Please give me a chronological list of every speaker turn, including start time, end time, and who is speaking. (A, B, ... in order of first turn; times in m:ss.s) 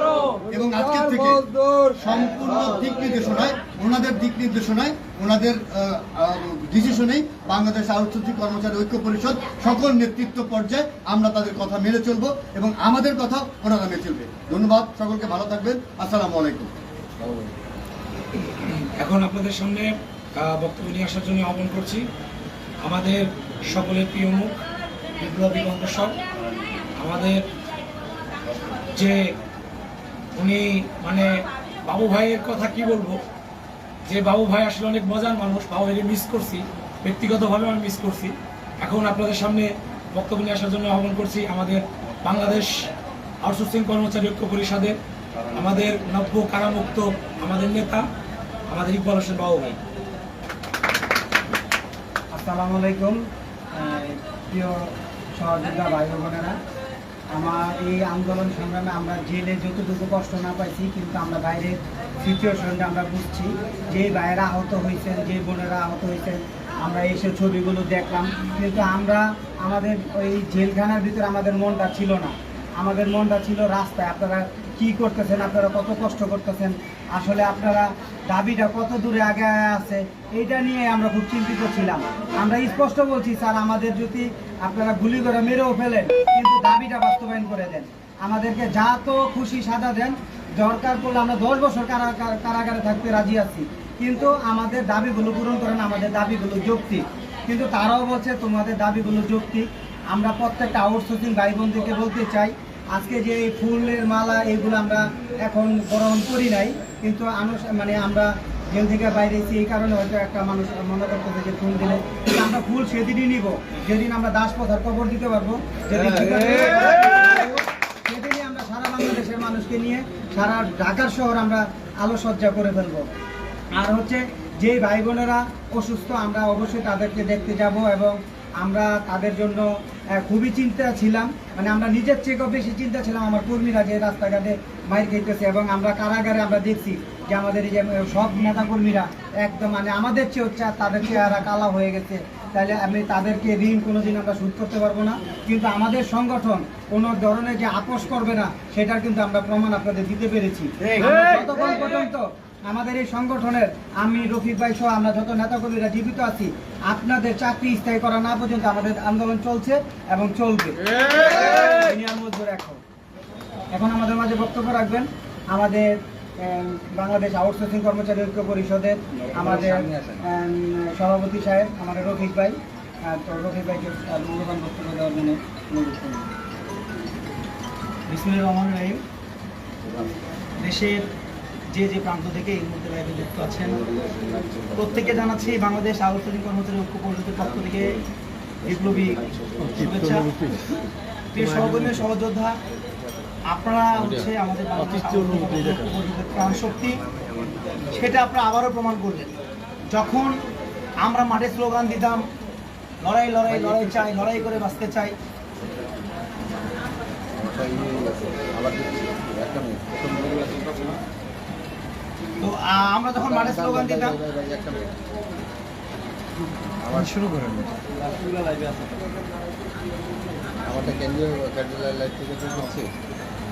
0:00.5-0:16.7 A
0:17.2-0:17.5 B
0:18.4-0:22.0 C
0:22.8-0:24.5 C
0:25.2-0:26.2 C
0:27.0-0:27.4 C
0:30.4-0:31.3 C
0:31.8-0:33.2 C
0:34.1-0:42.9 C
0:43.4-0:45.0 C
0:45.6-0:48.0 C
0:48.7-0:49.8 C
0:52.3-0:53.2 D
0:53.7-0:56.6 D
0:57.3-2:03.0 D
2:03.8-2:40.8 D
2:41.6-2:42.8 D
2:43.7-2:52.6 D
2:49.4-2:50.2 B
2:53.1-2:56.3 D
2:58.1-2:59.0 E
3:00.6-3:01.1 E
3:01.7-3:03.8 E
3:04.8-3:08.0 E
3:08.6-3:10.4 E
3:11.3-3:12.6 E
3:13.5-3:17.0 E
3:17.9-3:19.3 E
3:19.9-3:20.3 E
3:21.0-3:22.2 E
3:23.0-3:25.2 E
3:27.4-3:31.0 B
3:32.4-3:34.2 E
3:33.2-3:34.9 B
3:36.8-3:37.1 B
3:40.7-3:42.9 B